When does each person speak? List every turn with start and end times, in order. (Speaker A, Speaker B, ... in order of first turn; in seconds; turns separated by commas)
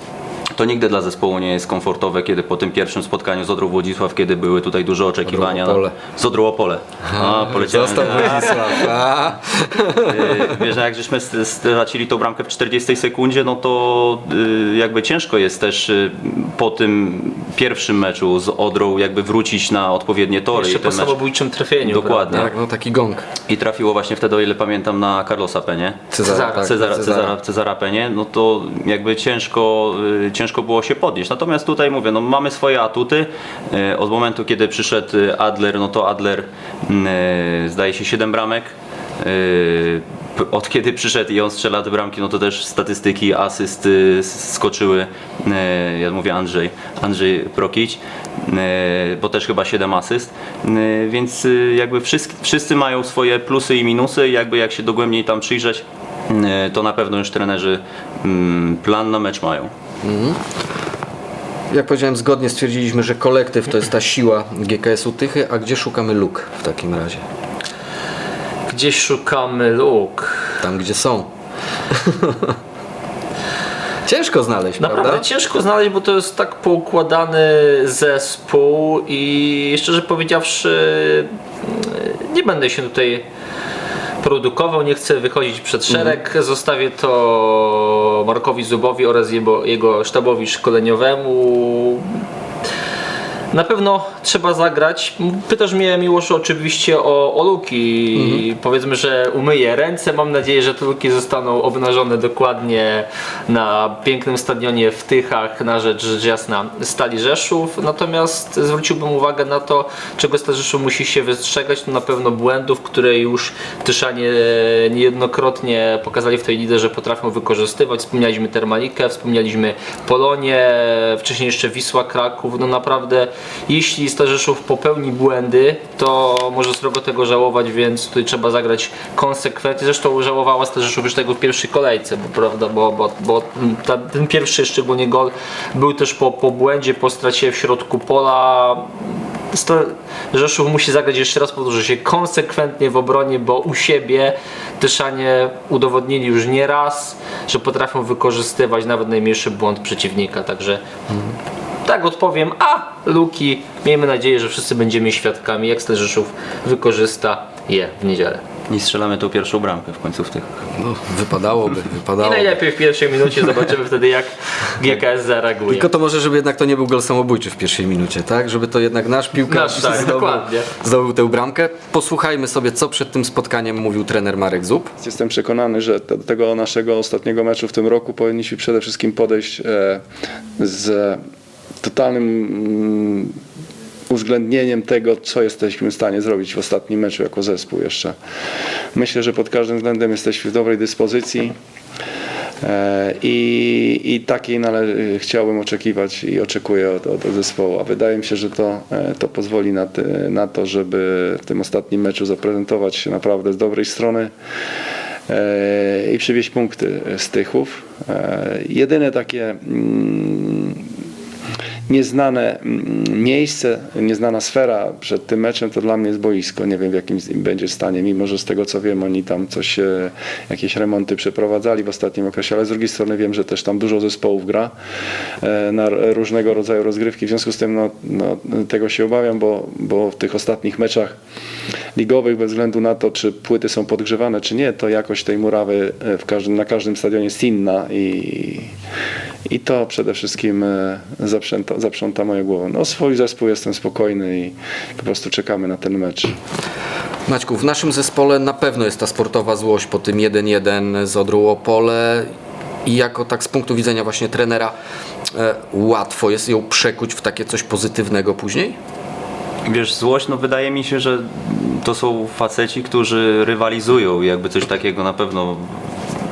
Speaker A: 0.6-9.0, Speaker B: 5.2-5.9, Speaker B: 7.1-10.6, Speaker A: 9.9-21.1, Speaker C: 20.5-22.5, Speaker A: 21.8-22.5, Speaker B: 22.3-23.3, Speaker A: 23.5-59.7, Speaker B: 26.1-27.3, Speaker C: 26.2-26.7, Speaker B: 60.0-60.4, Speaker B: 61.7-67.2, Speaker C: 68.7-70.6, Speaker B: 70.6-71.3, Speaker B: 71.9-72.6, Speaker B: 74.0-75.2, Speaker C: 74.8-83.2, Speaker C: 84.2-92.2, Speaker B: 85.9-86.2, Speaker C: 93.5-150.8, Speaker B: 98.1-98.4, Speaker C: 151.8-158.4, Speaker A: 158.7-160.6, Speaker B: 160.8-162.6, Speaker C: 162.2-165.9, Speaker B: 165.7-174.9, Speaker C: 169.5-170.7, Speaker D: 175.0-180.0, Speaker D: 180.6-181.2, Speaker D: 181.8-183.3, Speaker D: 184.1-188.1, Speaker D: 188.9-191.6, Speaker D: 192.6-204.3, Speaker D: 205.3-210.8, Speaker D: 211.9-224.7, Speaker D: 225.4-231.1, Speaker D: 231.9-238.7, Speaker D: 239.5-246.4, Speaker B: 247.3-252.3, Speaker B: 252.8-254.7, Speaker B: 255.3-258.8, Speaker A: 259.6-266.0